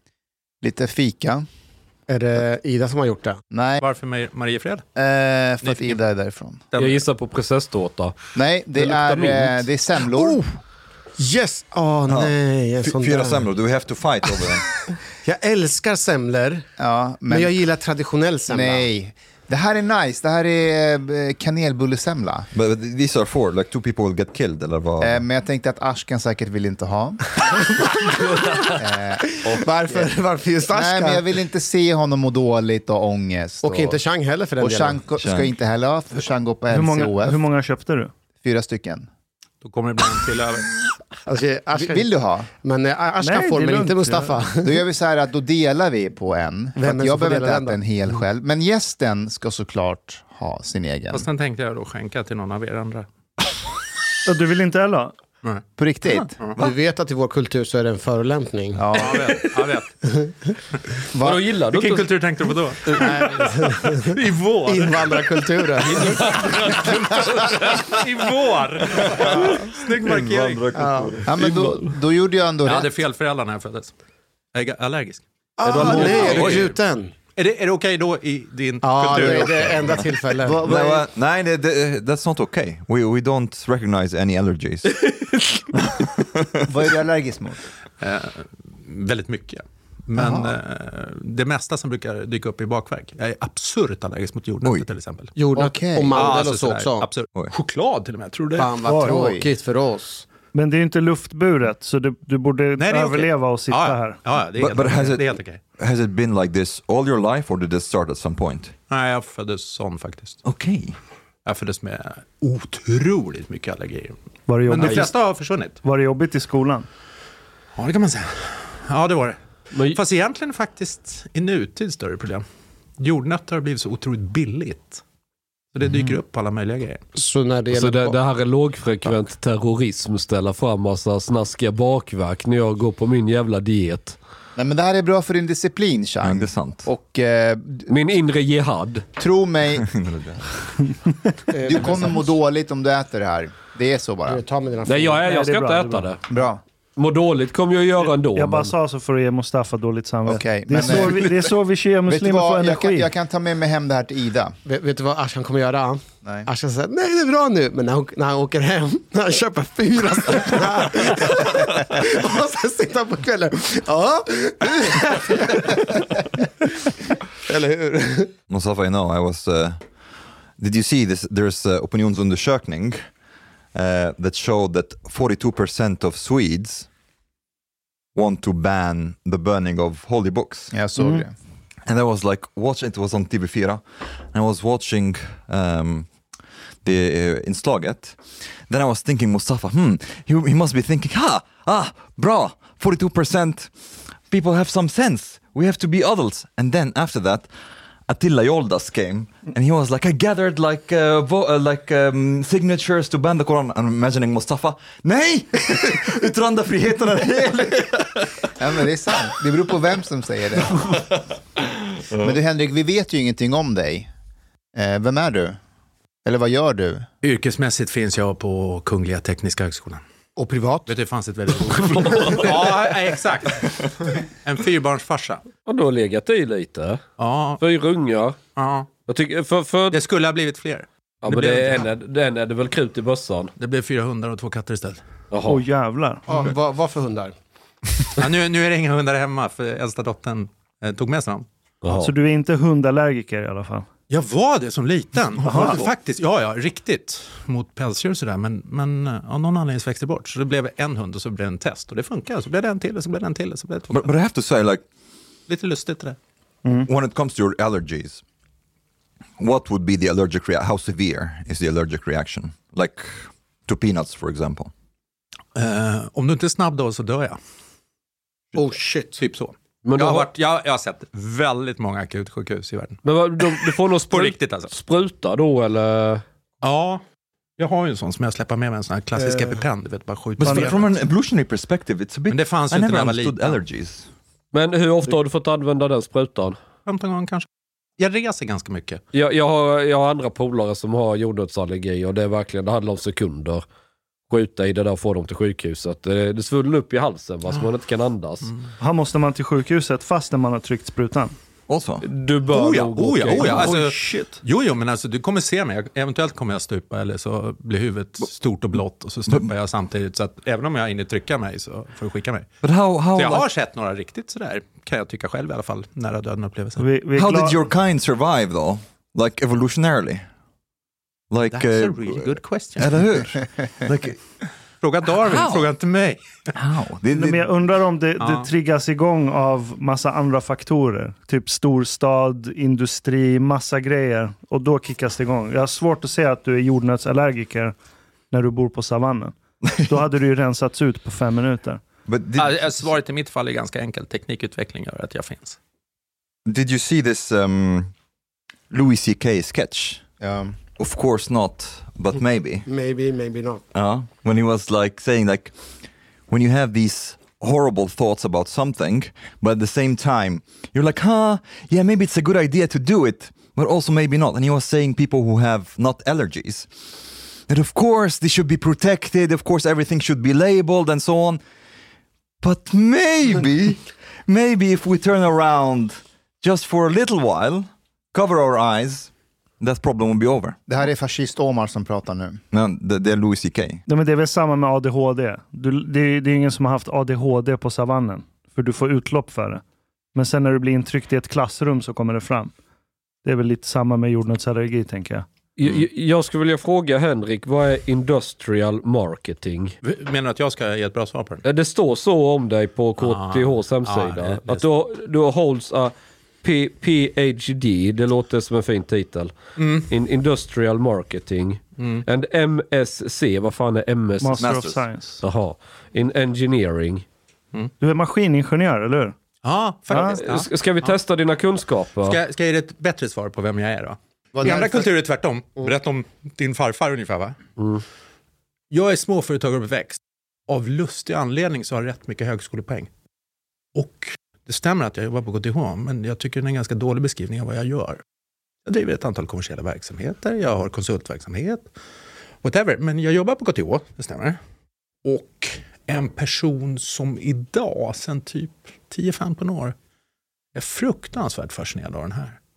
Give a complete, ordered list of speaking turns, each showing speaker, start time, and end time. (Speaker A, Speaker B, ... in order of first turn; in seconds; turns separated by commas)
Speaker A: 0.6-1.4, Speaker B: 2.1-3.4, Speaker A: 3.5-3.8, Speaker C: 3.8-4.8, Speaker A: 5.0-6.6, Speaker C: 5.6-6.0, Speaker C: 6.7-7.0, Speaker D: 6.8-8.1, Speaker A: 8.3-10.4, Speaker B: 8.8-9.3, Speaker D: 9.0-9.5, Speaker B: 10.1-10.5, Speaker B: 11.2-13.5, Speaker E: 12.1-14.7, Speaker B: 14.4-16.6, Speaker A: 16.8-17.5, Speaker B: 17.3-18.9, Speaker A: 18.5-22.5, Speaker E: 22.5-25.2, Speaker A: 25.0-27.2, Speaker A: 28.7-29.2, Speaker B: 29.3-31.3, Speaker A: 30.7-34.0, Speaker B: 33.6-35.0, Speaker A: 34.6-37.4, Speaker E: 35.2-35.5, Speaker F: 36.7-38.1, Speaker A: 38.4-39.1, Speaker C: 39.6-40.8, Speaker B: 41.2-44.8, Speaker A: 41.8-42.5, Speaker F: 43.2-44.4, Speaker A: 44.6-51.3, Speaker B: 46.8-47.8, Speaker C: 51.1-53.0, Speaker F: 54.2-55.1, Speaker A: 55.8-56.5, Speaker B: 56.5-59.5, Speaker A: 58.8-59.4, Speaker C: 58.9-59.9, Speaker B: 60.0-60.5, Speaker A: 61.1-61.4, Speaker D: 61.2-62.1, Speaker C: 61.7-65.1, Speaker B: 63.0-67.3, Speaker C: 65.8-70.6, Speaker E: 68.9-71.7, Speaker B: 70.7-71.2, Speaker A: 71.2-72.9, Speaker C: 72.6-73.9, Speaker C: 74.5-75.2, Speaker B: 75.6-77.1, Speaker D: 75.7-76.5, Speaker A: 75.8-76.3, Speaker C: 75.8-76.6, Speaker E: 76.0-76.7, Speaker C: 77.3-79.8, Speaker B: 78.8-80.8, Speaker A: 79.2-79.5, Speaker A: 80.4-81.0, Speaker E: 80.6-86.5, Speaker A: 86.6-87.6, Speaker C: 88.0-95.3, Speaker A: 90.1-90.5, Speaker B: 95.3-97.1, Speaker A: 95.5-96.3, Speaker C: 96.1-98.7, Speaker B: 98.5-100.2, Speaker F: 98.9-99.1, Speaker A: 98.9-99.5, Speaker F: 100.5-104.2, Speaker C: 102.8-105.6, Speaker E: 104.6-108.7, Speaker C: 108.9-110.4, Speaker E: 110.4-111.0, Speaker C: 111.5-114.1, Speaker F: 114.5-115.2, Speaker C: 114.7-115.8, Speaker F: 115.8-116.9, Speaker C: 117.8-119.4, Speaker D: 119.7-120.0, Speaker C: 119.9-122.4, Speaker C: 123.0-125.0, Speaker C: 125.7-127.0, Speaker B: 127.2-128.2, Speaker D: 127.7-134.2, Speaker A: 134.6-137.9, Speaker E: 136.2-136.9, Speaker D: 137.9-139.0, Speaker A: 139.2-140.0, Speaker E: 139.8-140.4, Speaker B: 141.5-142.3, Speaker A: 141.6-144.4, Speaker B: 144.2-145.3, Speaker D: 144.8-146.2, Speaker F: 145.2-146.1, Speaker A: 146.3-146.6, Speaker D: 146.9-148.7, Speaker F: 148.3-153.1, Speaker A: 150.3-151.5, Speaker A: 152.1-154.5, Speaker B: 154.7-166.0, Speaker B: 167.4-168.3, Speaker E: 168.5-169.8, Speaker E: 170.6-173.0, Speaker E: 173.7-176.9, Speaker E: 178.1-180.7, Speaker A: 180.7-181.3, Speaker F: 181.0-181.2, Speaker E: 181.8-186.1, Speaker E: 186.8-193.7, Speaker E: 194.3-197.5, Speaker E: 198.1-208.5, Speaker A: 208.6-211.0, Speaker A: 212.2-214.1, Speaker A: 214.7-215.6, Speaker A: 216.2-217.1, Speaker C: 217.2-220.0, Speaker B: 220.3-220.9, Speaker C: 220.9-225.4, Speaker D: 221.7-222.7, Speaker D: 225.7-227.0, Speaker C: 227.2-227.6, Speaker D: 227.6-228.4, Speaker C: 228.6-228.9, Speaker D: 229.1-230.0, Speaker C: 229.9-231.8, Speaker D: 231.2-233.5, Speaker C: 233.6-235.0, Speaker D: 235.3-235.6, Speaker F: 235.4-236.2, Speaker B: 236.3-237.3, Speaker C: 238.2-241.4, Speaker D: 241.8-242.1, Speaker F: 242.0-243.8, Speaker C: 244.1-254.1, Speaker F: 245.4-245.8, Speaker E: 253.9-254.8, Speaker C: 255.5-256.2, Speaker E: 256.8-258.2, Speaker E: 259.4-264.7, Speaker C: 265.5-267.4, Speaker B: 268.5-269.2, Speaker C: 269.2-274.7, Speaker D: 269.8-270.3, Speaker D: 273.0-276.2, Speaker C: 276.6-277.0, Speaker C: 277.6-280.9, Speaker B: 279.3-279.6, Speaker E: 280.4-284.1, Speaker C: 282.3-283.6, Speaker D: 284.5-286.6, Speaker C: 286.9-287.5, Speaker C: 288.0-289.0, Speaker D: 289.1-293.6, Speaker D: 294.3-298.5, Speaker F: 298.8-301.3, Speaker E: 301.7-302.1, Speaker D: 302.0-303.8, Speaker C: 302.5-312.5, Speaker F: 303.3-304.4, Speaker E: 312.6-313.4, Speaker C: 313.1-316.8, Speaker F: 316.8-317.6, Speaker E: 317.1-320.3, Speaker E: 321.3-324.2, Speaker C: 321.5-323.1, Speaker C: 324.8-326.2, Speaker E: 325.2-325.7, Speaker E: 326.5-327.5, Speaker F: 327.1-337.7, Speaker C: 328.2-328.5, Speaker F: 338.3-341.8, Speaker E: 339.6-340.0, Speaker E: 342.1-342.9, Speaker C: 342.4-345.6, Speaker E: 346.4-347.9, Speaker E: 348.7-350.0, Speaker A: 350.2-350.6, Speaker E: 350.8-352.6, Speaker B: 352.6-353.6, Speaker E: 353.7-355.5, Speaker E: 356.3-366.7, Speaker E: 367.5-371.4, Speaker E: 372.4-380.6, Speaker A: 380.7-382.4, Speaker E: 382.5-383.8, Speaker F: 383.9-389.6, Speaker F: 390.1-392.5, Speaker F: 393.2-395.3, Speaker D: 395.6-399.7, Speaker C: 399.8-401.4, Speaker D: 401.4-409.3, Speaker C: 403.0-404.6, Speaker C: 409.6-409.9, Speaker D: 409.9-414.4, Speaker C: 411.8-412.0, Speaker F: 414.2-415.2, Speaker E: 414.4-414.8, Speaker D: 415.2-417.0, Speaker F: 417.8-419.1, Speaker C: 419.4-421.0, Speaker F: 419.9-420.2, Speaker D: 420.0-422.2, Speaker C: 422.0-427.4, Speaker A: 424.3-424.8, Speaker C: 428.7-432.9, Speaker C: 433.7-438.0, Speaker C: 438.6-441.7, Speaker C: 442.4-444.4, Speaker C: 445.0-449.7, Speaker C: 450.5-452.4